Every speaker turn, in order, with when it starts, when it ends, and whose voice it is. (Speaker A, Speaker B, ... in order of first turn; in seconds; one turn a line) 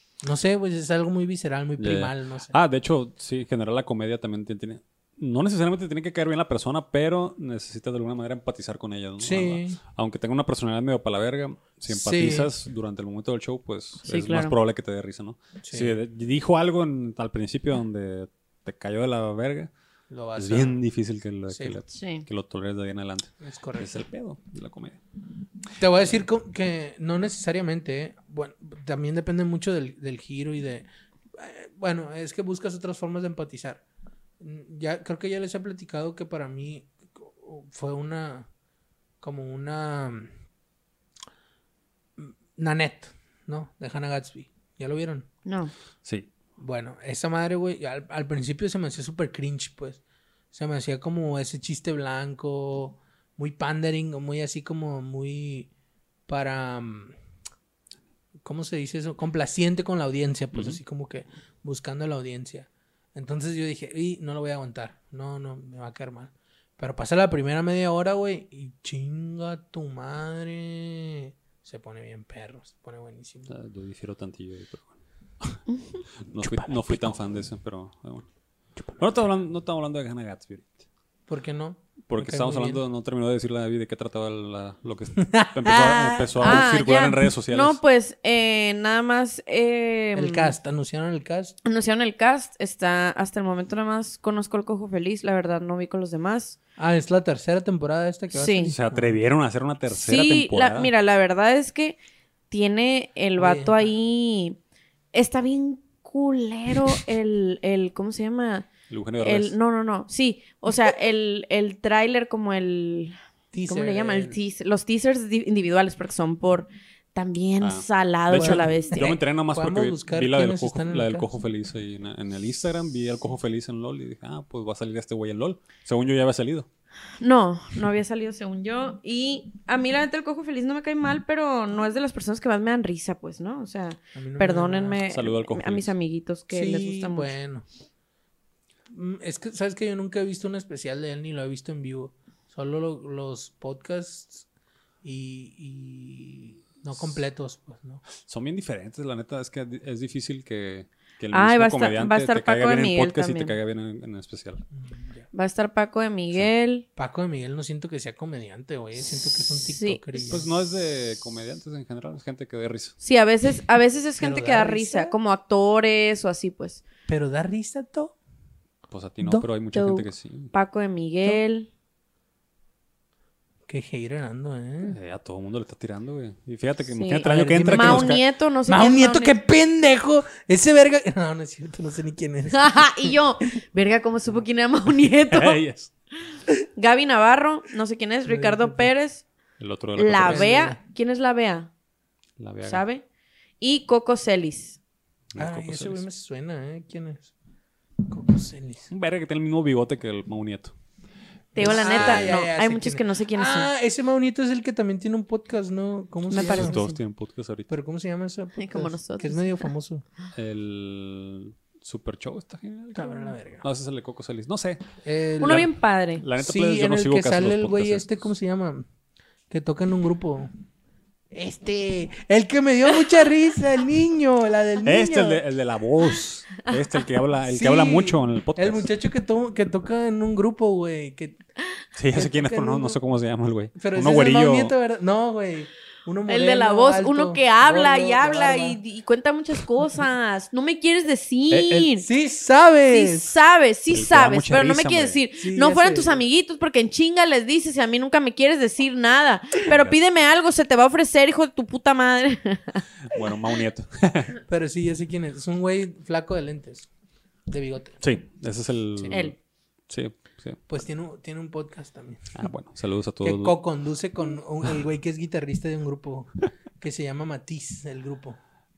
Speaker A: 0.2-2.5
Speaker B: 1.8-19.7
Speaker A: 9.2-9.8
Speaker A: 11.9-12.5
Speaker C: 14.1-14.6
Speaker A: 15.6-16.0
Speaker A: 20.1-20.8
Speaker B: 20.4-25.0
Speaker A: 21.5-21.8
Speaker C: 21.9-22.2
Speaker A: 23.4-23.9
Speaker A: 25.8-33.8
Speaker A: 34.4-38.5
Speaker A: 39.2-40.3
Speaker A: 42.2-45.3
Speaker C: 45.5-45.7
Speaker B: 46.0-46.3
Speaker A: 46.6-50.0
Speaker A: 50.5-55.7
Speaker A: 56.3-57.2
Speaker A: 58.4-73.5
Speaker B: 60.5-60.8
Speaker B: 73.5-74.9
Speaker C: 75.7-76.0
Speaker B: 76.3-78.3
Speaker A: 76.4-77.2
Speaker A: 78.8-79.0
Speaker B: 79.0-80.8
Speaker A: 81.3-82.8
Speaker B: 82.1-87.8
Speaker A: 85.2-86.7
Speaker C: 86.4-90.5
Speaker A: 90.2-91.6
Speaker C: 91.7-96.6
Speaker A: 96.8-99.2
Speaker C: 98.3-98.7
Speaker B: 98.7-100.9
Speaker C: 99.9-102.0
Speaker C: 102.5-104.6
Speaker A: 103.4-103.9
Speaker C: 105.1-108.7
Speaker B: 108.9-109.5
Speaker C: 109.2-119.2
Speaker A: 113.5-114.4
Speaker B: 117.6-126.7
Speaker A: 118.3-121.3
Speaker C: 127.2-137.3
Speaker A: 134.2-135.0
Speaker B: 135.1-135.9
Speaker A: 136.5-137.7
Speaker A: 138.9-144.5
Speaker A: 145.0-148.0
Speaker B: 148.2-154.6
Speaker C: 151.3-153.6
Speaker A: 154.8-155.3
Speaker C: 155.3-156.8
Speaker A: 157.0-160.5
Speaker C: 159.6-160.0
Speaker B: 160.3-163.0
Speaker C: 163.0-166.8
Speaker A: 164.2-165.2
Speaker A: 167.1-168.2
Speaker B: 168.9-170.5
Speaker C: 169.7-171.7
Speaker A: 173.7-175.0
Speaker B: 174.8-178.2
Speaker C: 177.0-179.4
Speaker A: 177.2-183.2
Speaker C: 182.5-185.6
Speaker B: 185.3-185.9
Speaker C: 186.8-189.2
Speaker A: 188.3-188.9
Speaker B: 189.6-190.5
Speaker C: 190.0-191.7
Speaker A: 190.2-190.8
Speaker B: 192.4-192.8
Speaker C: 192.7-193.0
Speaker C: 193.6-194.8
Speaker B: 195.3-196.0
Speaker A: 195.4-197.3
Speaker A: 198.1-198.9
Speaker B: 198.9-200.7
Speaker C: 201.6-203.7
Speaker A: 201.6-206.8
Speaker B: 201.6-202.3
Speaker C: 206.3-207.0
Speaker B: 206.3-207.7
Speaker A: 207.7-210.1
Speaker C: 208.6-209.7
Speaker B: 210.3-214.9
Speaker A: 212.9-213.6
Speaker A: 215.0-215.7
Speaker C: 215.4-216.2
Speaker B: 215.4-215.7
Speaker B: 216.2-218.2
Speaker A: 216.4-218.9
Speaker A: 219.5-220.5
Speaker A: 221.3-225.4
Speaker B: 224.8-228.9
Speaker A: 227.5-231.4
Speaker B: 232.0-234.8
Speaker A: 232.1-233.0
Speaker A: 233.8-238.8
Speaker C: 236.3-242.1
Speaker B: 241.5-241.9
Speaker A: 242.0-243.3
Speaker C: 242.9-252.8
Speaker B: 243.9-245.2
Speaker A: 245.4-246.2
Speaker B: 249.7-250.0
Speaker B: 253.1-254.4
Speaker A: 254.5-256.9
Speaker A: 257.5-258.0
Speaker B: 258.0-259.4
Speaker C: 259.1-259.4
Speaker B: 259.9-260.6
Speaker A: 260.7-262.5
Speaker B: 262.4-263.6
Speaker A: 263.2-268.4